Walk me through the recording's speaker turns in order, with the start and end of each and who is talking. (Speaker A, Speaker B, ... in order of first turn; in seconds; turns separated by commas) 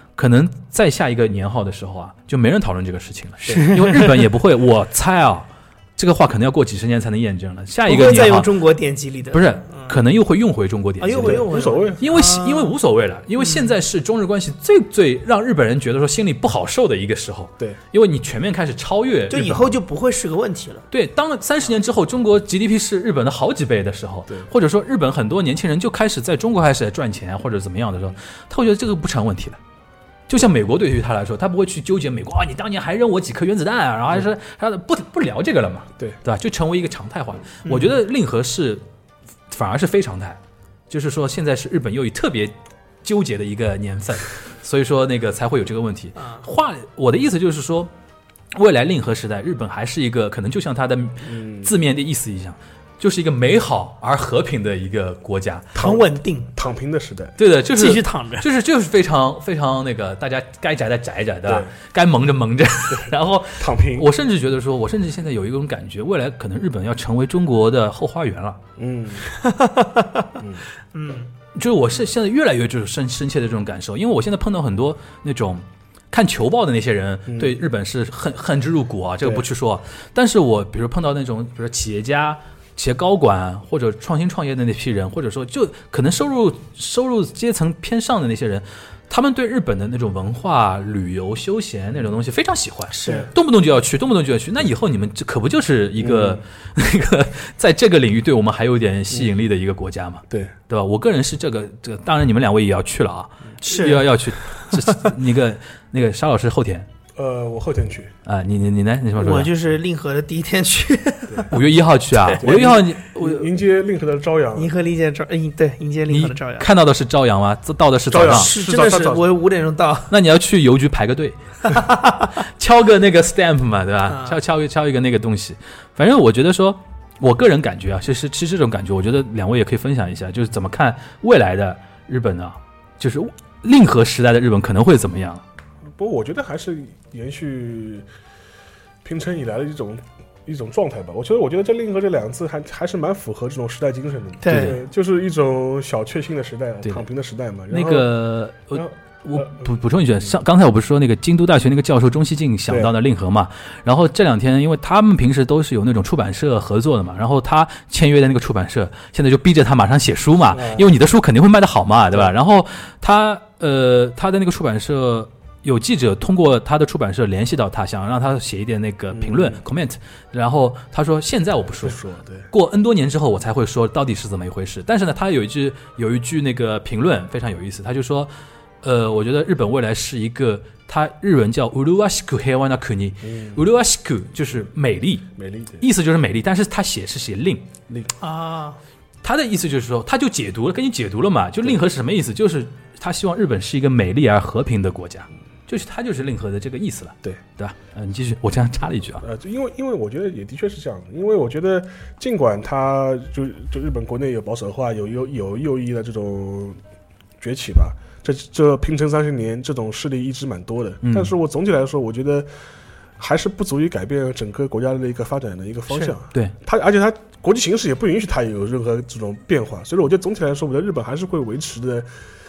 Speaker A: 0.2-8.5, Speaker B: 3.5-4.2, Speaker B: 7.8-9.9, Speaker A: 9.3-11.4, Speaker B: 11.0-12.7, Speaker C: 11.2-12.0, Speaker A: 12.0-19.8, Speaker B: 19.3-20.9, Speaker A: 20.9-29.6, Speaker A: 30.3-38.8, Speaker A: 39.5-47.9, Speaker B: 46.2-46.4, Speaker A: 48.5-55.7, Speaker C: 51.3-51.7, Speaker B: 55.7-56.5, Speaker C: 55.7-57.4, Speaker A: 57.4-68.6, Speaker B: 57.7-58.5, Speaker C: 61.5-61.7, Speaker C: 62.9-64.1, Speaker C: 68.8-69.2, Speaker B: 69.3-70.3, Speaker C: 70.4-70.6, Speaker B: 70.9-71.3, Speaker A: 71.5-106.9, Speaker C: 77.3-77.6, Speaker B: 93.0-93.3, Speaker C: 96.0-96.4, Speaker B: 103.6-104.0, Speaker B: 104.6-104.9, Speaker C: 107.1-108.1, Speaker A: 108.2-109.5, Speaker B: 109.2-111.5, Speaker A: 111.5-113.5, Speaker C: 112.4-114.7, Speaker B: 114.5-116.7, Speaker A: 116.1-118.5, Speaker C: 118.1-119.2, Speaker B: 118.2-120.1, Speaker A: 120.1-121.8, Speaker B: 121.7-122.3, Speaker A: 122.3-135.4, Speaker B: 124.0-124.4, Speaker C: 135.9-138.1, Speaker C: 139.0-148.1, Speaker B: 144.4-144.8, Speaker A: 144.5-144.8, Speaker A: 147.7-178.3, Speaker C: 148.7-149.7, Speaker C: 160.5-160.9, Speaker C: 169.1-169.6, Speaker C: 171.8-172.5, Speaker A: 178.8-185.3, Speaker C: 183.2-183.6, Speaker C: 185.4-185.8, Speaker A: 185.8-187.7, Speaker B: 188.2-188.8, Speaker A: 189.2-199.2, Speaker C: 199.2-206.8, Speaker C: 207.4-212.5, Speaker A: 211.0-211.3, Speaker C: 213.2-222.1